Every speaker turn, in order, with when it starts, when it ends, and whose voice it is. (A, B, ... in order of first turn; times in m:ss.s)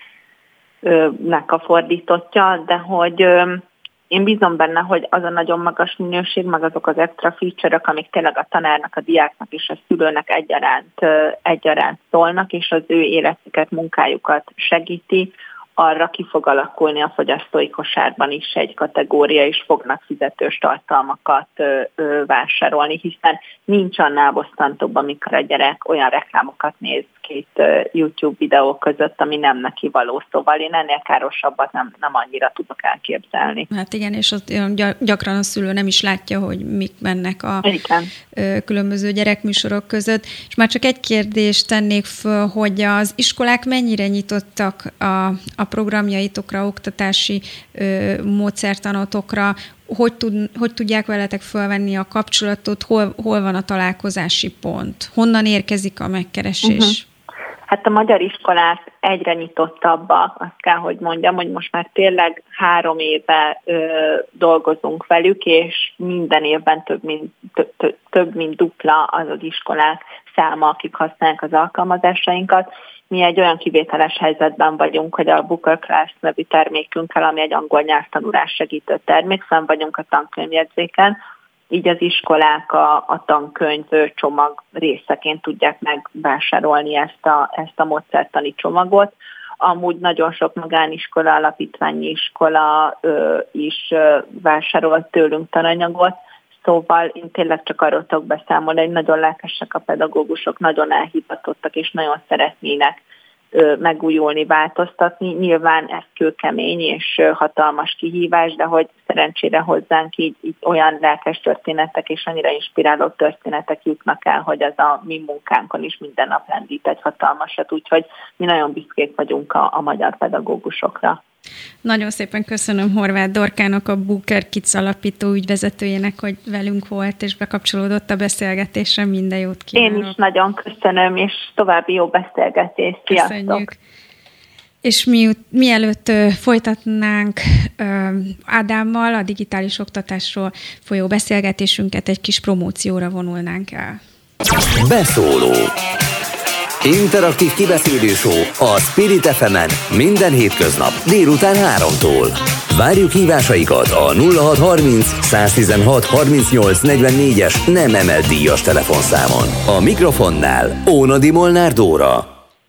0:00.8-0:33.7 A
0:33.7-0:37.7 B
0:37.6-0:38.1 A
0:38.4-0:57.0 B
0:56.6-0:57.0 A
0:57.7-1:21.2 A
1:21.7-1:43.0 A
1:43.5-2:01.2 A
2:01.8-2:10.2 B
2:09.8-2:13.7 A
2:13.1-2:13.8 B
2:14.8-2:24.0 B
2:24.8-2:25.7 C
2:26.8-2:42.3 C